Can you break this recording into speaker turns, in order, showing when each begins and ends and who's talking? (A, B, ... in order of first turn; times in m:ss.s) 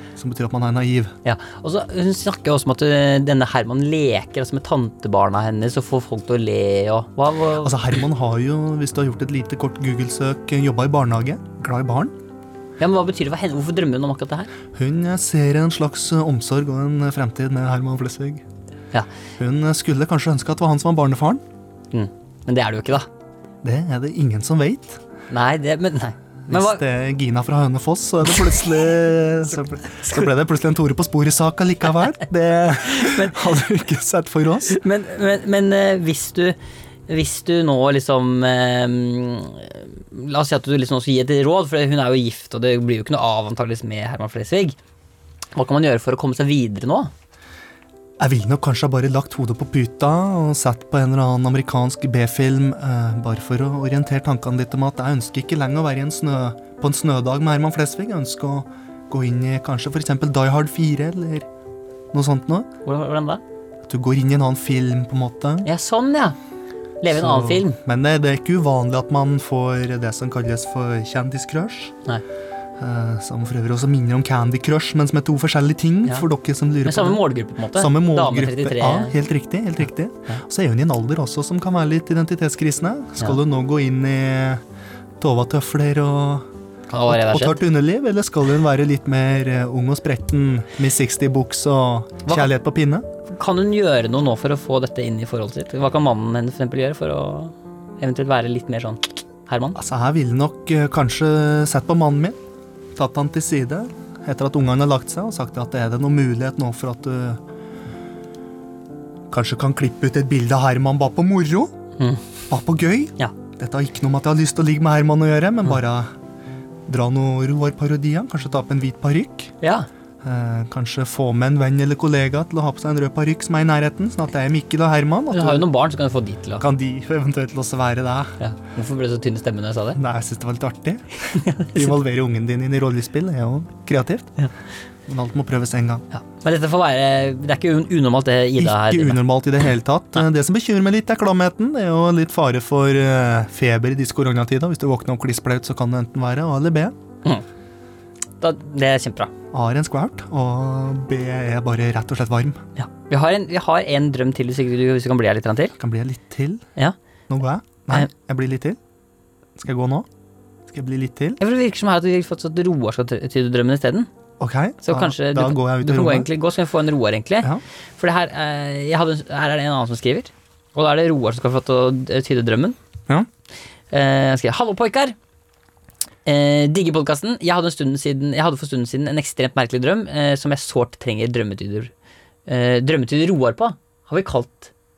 0:00.2-0:01.1 A
0:01.2-0:07.8 B
0:07.6-0:12.1 A
0:12.8-0:14.5 B
0:14.7-0:18.4 A
0:19.4-0:21.4 A
0:21.9-0:23.1 B
0:23.6-0:25.0 A
0:25.3-0:26.8 B
0:26.5-0:34.8 A
0:32.9-0:33.4 B
0:34.7-0:36.6 B
0:37.1-0:44.8 B
0:45.5-0:47.1 B
0:48.2-1:01.5 A
1:02.1-1:02.7 A
1:02.8-1:03.4 B
1:03.8-1:05.7 A
1:05.6-1:06.4 B
1:07.0-1:07.8 B
1:07.1-1:11.9 A
1:12.8-1:24.6 A
1:16.8-1:19.2 B
1:25.2-1:26.5 A
1:26.9-1:27.6 B
1:27.1-1:33.0 A
1:32.2-1:32.5 B
1:33.3-1:39.8 B
1:39.8-1:42.4 A
1:42.9-1:47.4 A
1:49.3-1:51.7 A
1:52.5-1:56.1 A
1:56.9-1:59.5 A
1:59.6-1:59.9 B
2:00.2-2:05.7 A
2:05.3-2:06.6 B
2:06.6-2:08.4 A
2:08.4-2:10.0 B
2:10.0-2:14.3 A
2:11.3-2:11.9 B
2:15.1-2:16.0 A
2:16.1-2:19.2 B
2:18.6-2:26.9 A
2:28.4-2:29.3 B
2:29.5-2:32.6 A
2:32.8-2:35.7 B
2:35.8-2:36.6 A
2:37.3-2:38.8 A
2:39.6-2:40.1 A
2:40.7-2:41.4 A
2:41.4-2:44.1 B
2:44.4-2:46.3 A
2:44.8-2:52.8 B
2:53.9-2:55.1 B
2:56.2-3:01.9 B
3:02.5-3:04.7 B